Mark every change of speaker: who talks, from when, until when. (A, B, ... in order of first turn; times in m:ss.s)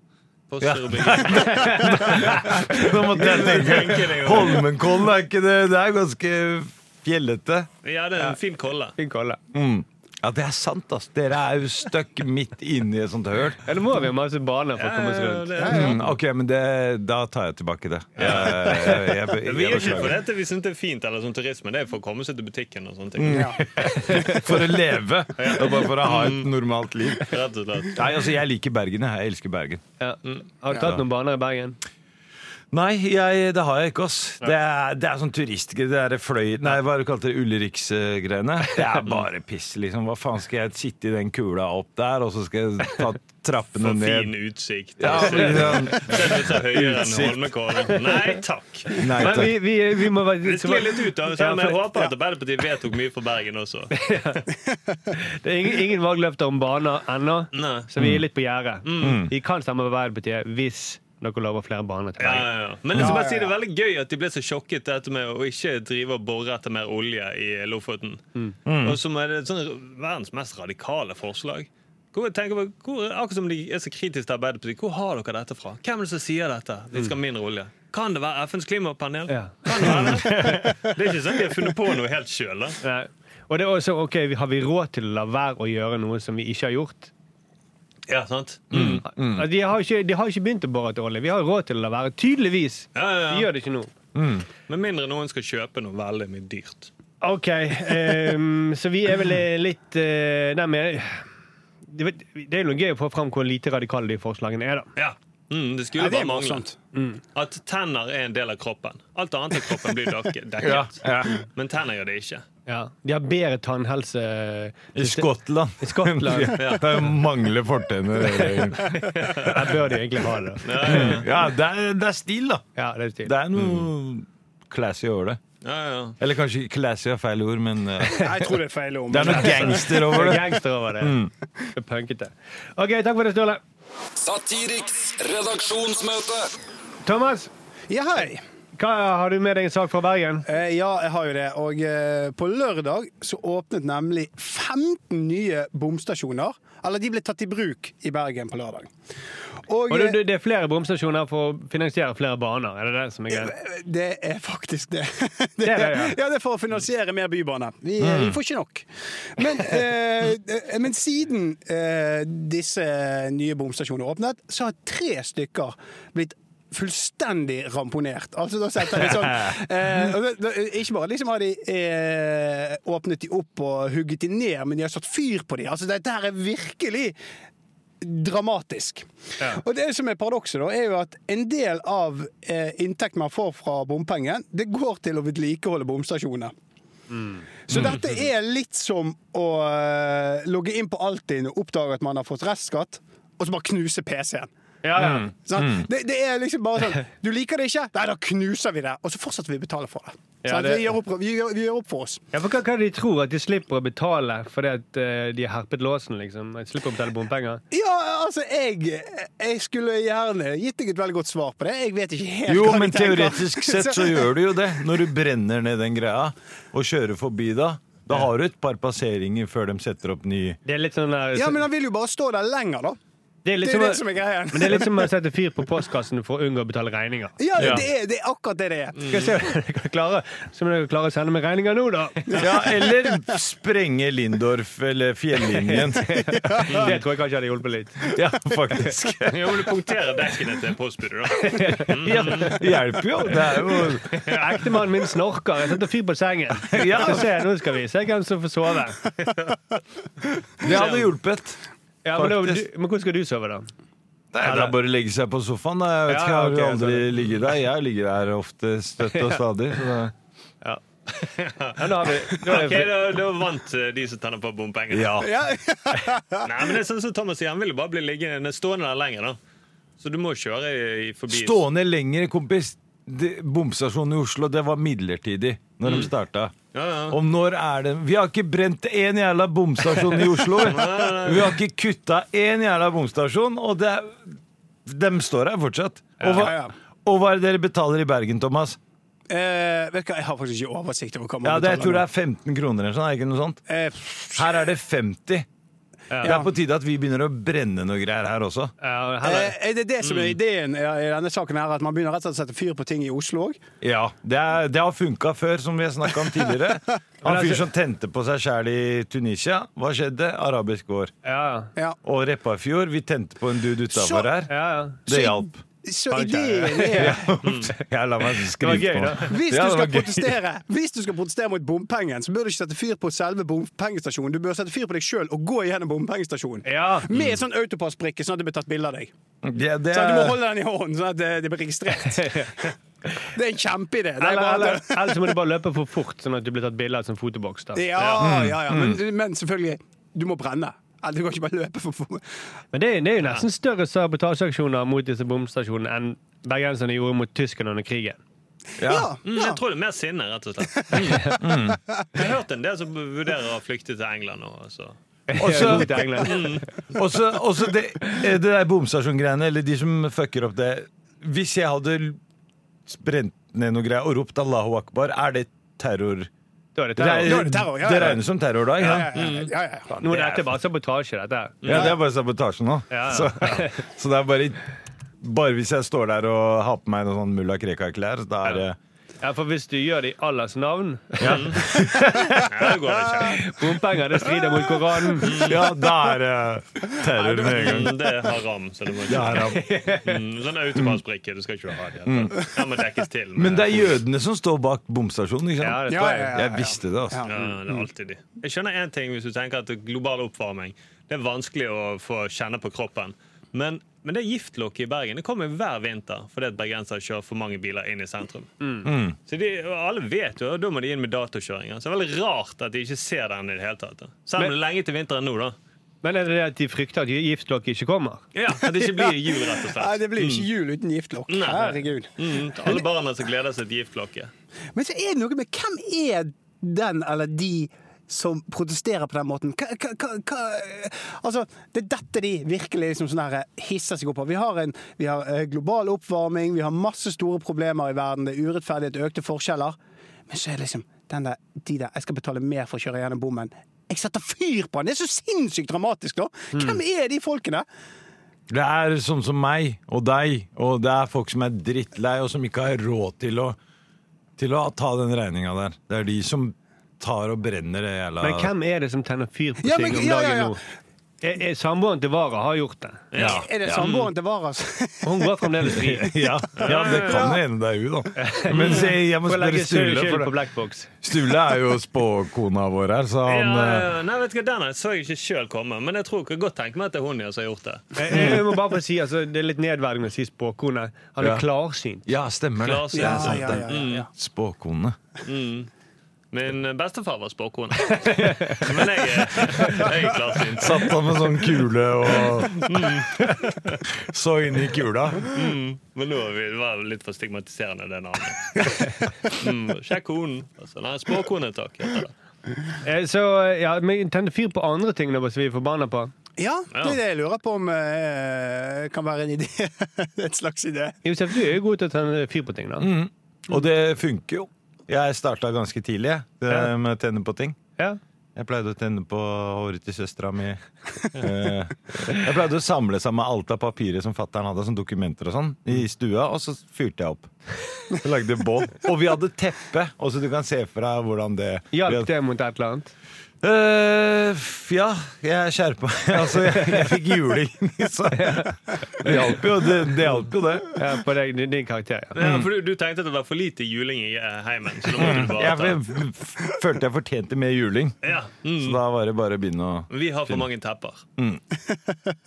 0:00.5-0:04.7 A
0:00.6-0:07.7 B
0:01.3-0:02.6 C
0:07.8-0:08.9 A
0:09.0-0:09.4 C
0:09.5-0:13.6 B
0:13.6-0:15.6 C
0:14.8-0:16.0 A
0:15.6-0:16.0 D
0:15.7-0:20.2 B
0:18.2-0:23.8 A
0:23.2-0:27.3 B
0:23.2-0:23.6 D
0:23.8-0:24.4 C
0:25.4-0:26.5 A
0:27.2-0:28.0 A
0:27.9-0:29.8 B
0:30.0-0:31.8 C
0:30.8-0:31.0 B
0:32.7-0:44.3 B
0:38.7-0:39.0 C
0:43.8-0:49.3 A
0:45.0-0:47.5 B
0:45.1-0:46.0 C
0:47.9-0:48.4 C
0:48.9-0:52.0 C
0:49.0-0:49.6 B
0:50.4-0:53.9 A
0:53.9-0:54.4 C
0:54.7-0:55.0 D
0:55.1-1:02.5 C
0:57.5-0:57.9 A
0:58.0-0:58.2 B
0:58.8-0:59.2 A
0:59.0-0:59.3 B
1:02.2-1:08.2 A
1:02.9-1:03.2 B
1:03.0-1:03.5 D
1:08.6-1:09.0 B
1:08.8-1:22.8 A
1:19.3-1:20.8 C
1:19.9-1:20.2 B
1:22.8-1:27.1 C
1:28.1-1:29.0 A
1:28.7-1:29.5 B
1:29.1-1:33.9 C
1:32.9-1:33.5 A
1:34.1-1:34.5 B
1:34.7-1:36.9 A
1:37.2-1:41.3 C
1:41.9-1:44.9 C
1:45.0-1:46.6 A
1:46.0-1:46.8 D
1:46.9-1:47.2 C
1:47.3-1:52.4 A
1:50.6-1:51.4 B
1:52.7-1:56.6 C
1:54.9-1:59.0 B
1:56.6-1:56.9 A
1:58.3-2:01.2 C
1:59.2-1:59.6 A
2:00.6-2:01.3 A
2:00.8-2:02.6 B
2:02.8-2:03.3 C
2:03.2-2:05.4 B
2:03.6-2:03.9 A
2:05.6-2:06.2 A
2:06.2-2:08.5 B
2:08.2-2:10.2 D
2:09.1-2:11.3 B
2:09.2-2:11.2 C
2:11.7-2:13.6 C
2:14.2-2:16.5 E
2:17.0-2:17.5 C
2:17.9-2:18.4 D
2:18.7-2:20.4 C
2:20.5-2:28.9 D
2:29.7-2:30.2 D
2:29.9-2:33.5 C
2:33.3-2:57.2 D
2:35.6-2:36.2 C
2:38.0-2:38.4 B
2:48.9-2:49.5 B
2:58.0-3:06.5 D
3:07.1-3:07.4 C
3:07.7-3:14.5 D
3:07.7-3:08.0 B
3:14.8-3:15.3 C
3:15.0-3:15.9 B
3:15.4-3:22.2 D
3:20.4-3:20.9 C
3:22.3-3:27.6 C
3:27.7-3:34.3 D
3:32.5-3:40.6 B
3:40.6-3:41.6 C
3:41.3-3:43.0 D
3:43.4-3:47.8 C
3:43.6-3:45.1 D
3:47.4-3:49.1 D
3:47.6-3:47.8 B
3:49.0-3:49.3 A
3:49.0-3:52.4 C
3:52.3-3:53.3 D
3:52.3-3:56.1 B
3:55.7-3:58.1 C
3:56.4-3:56.9 D
3:56.7-3:57.0 A
3:58.1-3:59.6 B
3:59.3-4:02.6 A
4:01.4-4:02.6 C
4:02.0-4:04.4 B
4:04.0-4:09.1 C
4:06.6-4:07.3 B
4:10.6-4:11.6 B
4:10.6-4:11.1 A
4:12.0-4:13.7 C
4:12.1-4:12.6 B
4:14.3-4:20.1 B
4:14.4-4:14.7 C
4:16.1-4:17.1 C
4:20.6-4:23.0 C
4:21.4-4:21.8 A
4:22.4-4:25.2 A
4:24.9-4:25.3 B
4:25.2-4:26.7 D
4:26.4-4:29.4 A
4:30.0-4:31.6 A
4:31.3-4:36.5 B
4:35.8-4:36.1 A
4:36.7-4:37.2 A
4:37.1-4:48.8 B
4:40.6-4:41.6 A
4:46.2-4:46.5 C
4:46.3-4:46.7 D
4:49.3-4:52.0 D
4:51.4-4:53.6 B
4:53.7-4:54.5 D
4:54.3-4:55.5 B
4:56.1-4:56.4 C
4:56.2-4:56.5 D
4:56.2-4:58.7 B
4:58.8-4:59.5 C
4:59.2-5:03.6 D
5:00.0-5:00.4 A
5:03.8-5:11.1 B
5:07.2-5:07.7 C
5:11.2-5:11.7 C
5:12.0-5:14.5 B
5:13.9-5:14.3 D
5:14.5-5:15.1 C
5:15.0-5:15.6 B
5:15.1-5:17.4 D
5:16.1-5:17.3 C
5:16.9-5:20.4 B
5:17.4-5:17.7 A
5:18.6-5:19.3 C
5:19.2-5:29.1 D
5:26.6-5:27.1 C
5:29.4-5:30.4 B
5:29.9-5:35.4 D
5:32.1-5:32.6 C
5:34.2-5:37.9 C
5:37.7-5:42.2 D
5:38.0-5:38.3 A
5:38.2-5:39.0 B
5:42.7-5:48.2 C
5:48.8-5:49.1 B
5:48.8-5:49.6 D
5:49.2-5:51.4 A
5:50.9-5:51.2 D
5:51.1-5:51.4 C
5:51.3-5:51.8 B
5:52.1-5:55.0 A
5:55.3-5:56.6 C
5:55.4-6:02.2 B
5:56.2-5:56.6 A
6:02.9-6:06.3 B
6:06.8-6:07.5 C
6:07.0-6:09.1 B
6:07.2-6:08.2 D
6:08.8-6:10.1 D
6:08.8-6:09.5 A
6:09.9-6:10.4 B
6:10.0-6:11.9 C
6:11.6-6:11.9 A
6:11.6-6:14.6 B
6:12.9-6:13.8 C
6:15.2-6:18.8 B
6:19.2-6:22.4 C
6:21.2-6:22.4 B
6:21.2-6:21.6 A
6:22.3-6:23.6 A
6:23.3-6:25.4 C
6:25.2-6:25.7 A
6:25.3-6:27.9 B
6:27.2-6:34.0 A
6:29.1-6:29.7 B
6:29.4-6:30.2 C
6:32.0-6:32.5 B
6:33.4-6:37.2 B
6:35.6-6:36.4 C
6:35.9-6:37.8 D
6:37.3-6:48.5 A
6:48.6-6:48.9 C
6:48.8-6:49.2 B
6:49.2-6:55.6 A
6:56.0-6:58.2 C
6:58.3-7:00.5 A
6:58.6-7:02.8 D
7:01.3-7:04.3 A
7:04.7-7:19.8 D
7:20.3-7:27.6 D
7:26.5-7:26.8 C
7:28.5-7:33.6 B
7:34.4-7:38.5 B
7:38.2-7:40.6 C
7:39.6-7:40.6 D
7:41.2-7:43.1 C
7:43.1-7:44.1 A
7:43.2-7:43.9 B
7:43.2-7:46.4 D
7:45.0-7:46.2 C
7:45.7-7:50.3 B
7:46.6-7:47.3 A
7:47.0-7:47.3 D
7:48.2-7:50.9 C
7:48.5-7:48.9 A
7:51.0-7:53.9 B
7:53.2-7:58.3 A
7:58.0-8:02.1 C
7:58.1-7:58.4 B
8:01.2-8:01.4 B
8:02.0-8:05.0 B
8:02.6-8:04.1 A
8:02.9-8:04.1 D
8:05.2-8:05.7 A
8:06.3-8:11.0 A
8:08.1-8:08.7 C
8:10.5-8:12.9 B
8:12.1-8:13.8 A
8:13.9-8:15.3 B
8:15.3-8:22.1 A
8:22.8-8:26.1 C
8:26.4-8:31.0 D
8:26.7-8:27.0 A
8:31.0-8:32.9 C
8:32.8-8:37.6 B
8:38.4-8:47.3 B
8:47.9-8:52.1 B
8:51.7-8:52.9 C
8:53.4-9:00.8 B
8:56.6-8:56.8 C
8:58.1-8:59.2 C
9:00.8-9:02.1 C
9:02.1-9:05.8 A
9:02.2-9:02.5 B
9:04.9-9:08.0 B
9:08.0-9:08.8 A
9:08.6-9:10.4 B
9:09.9-9:11.0 A
9:11.2-9:11.4 B